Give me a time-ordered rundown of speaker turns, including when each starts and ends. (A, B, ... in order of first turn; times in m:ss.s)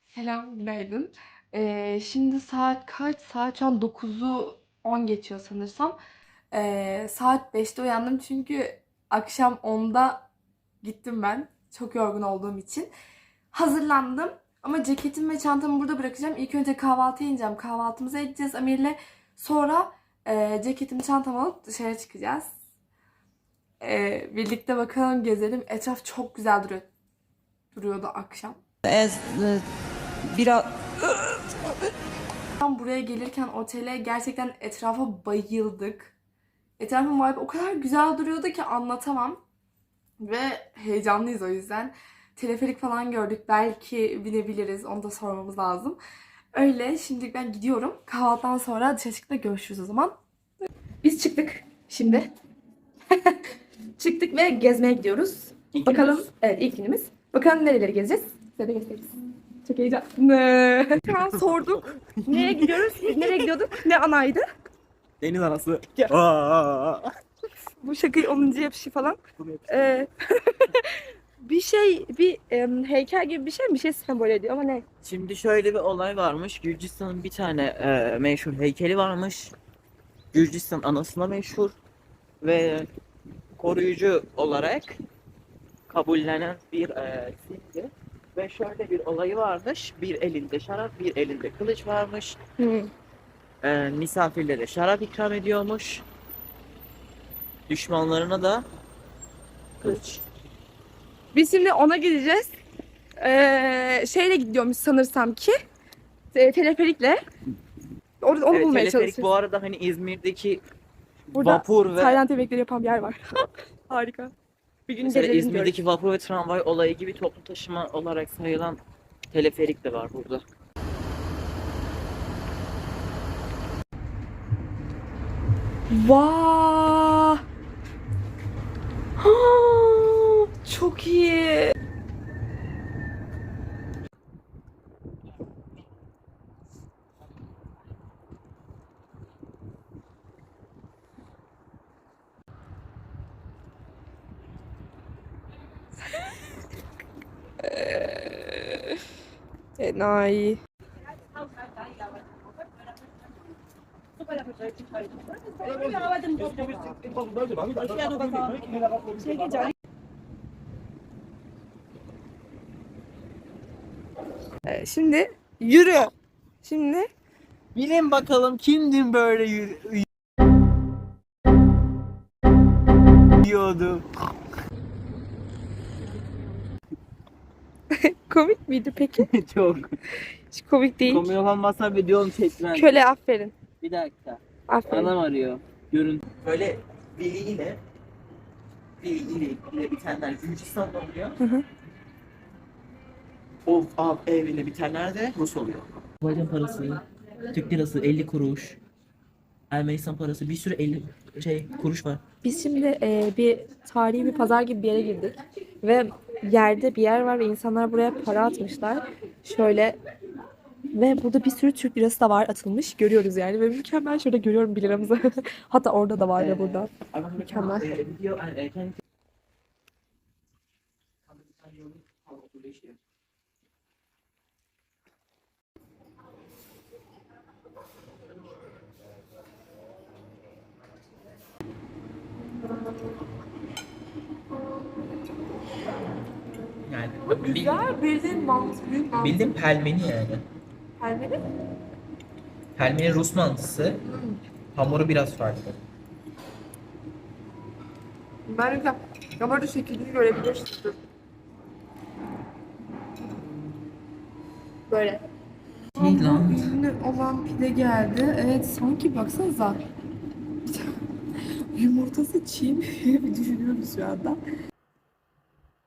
0:00.1-0:06.0 A
0:06.5-0:10.3 A
0:10.8-0:12.9 A
0:13.5-0:22.5 A
0:23.8-0:26.9 A
0:27.7-0:28.6 A
0:28.8-0:29.6 B
0:30.3-0:31.3 B
0:32.6-0:36.2 A
0:36.8-0:39.4 A
0:40.2-0:46.0 A
0:46.5-0:50.2 A
0:51.0-0:52.3 A
0:53.1-0:53.4 A
0:54.0-1:04.4 A
0:55.7-0:56.3 B
1:01.0-1:03.5 B
1:05.2-1:07.1 B
1:07.8-1:14.8 A
1:09.4-1:09.9 B
1:15.0-1:19.5 B
1:20.3-1:21.8 B
1:22.4-1:22.9 B
1:23.6-1:25.0 B
1:25.9-1:32.4 B
1:32.6-1:32.9 A
1:33.6-1:36.0 B
1:37.7-1:38.6 B
1:39.8-1:40.2 B
1:41.3-1:42.6 A
1:43.2-1:45.5 A
1:46.3-1:47.2 A
1:48.2-1:49.3 A
1:48.5-1:50.6 B
1:51.3-1:52.2 B
1:51.3-1:53.2 A
1:53.9-1:54.3 A
1:54.9-1:55.8 A
1:55.0-1:58.8 B
1:59.3-2:00.4 B
2:05.9-2:07.4 A
2:09.2-2:11.8 A
2:27.6-2:28.9 A
2:29.8-2:30.6 A
2:37.7-2:38.8 B
2:44.6-2:46.1 A
2:46.6-2:47.1 A
2:47.7-2:50.1 B
2:53.4-2:54.0 B
2:57.9-2:59.3 A
2:59.1-3:00.0 B
3:00.5-3:01.3 A
3:01.0-3:02.9 B
3:02.7-3:03.5 A
3:03.8-3:07.8 B
3:04.7-3:05.1 A
3:09.0-3:11.4 B
3:11.4-3:11.6 A
3:13.6-3:18.8 B
3:19.7-3:22.2 B
3:22.4-3:30.0 A
3:30.9-3:37.9 A
3:36.4-3:39.0 B
3:41.3-3:43.0 B
3:56.8-3:57.9 B
3:57.2-3:59.4 A
3:59.1-4:00.4 B
4:01.0-4:01.4 A
4:02.8-4:04.0 B
4:04.1-4:04.4 A
4:04.7-4:05.8 B
4:08.5-4:11.0 A
4:14.9-4:15.2 A
4:15.9-4:19.8 A
4:16.0-4:16.7 B
4:21.7-4:24.4 A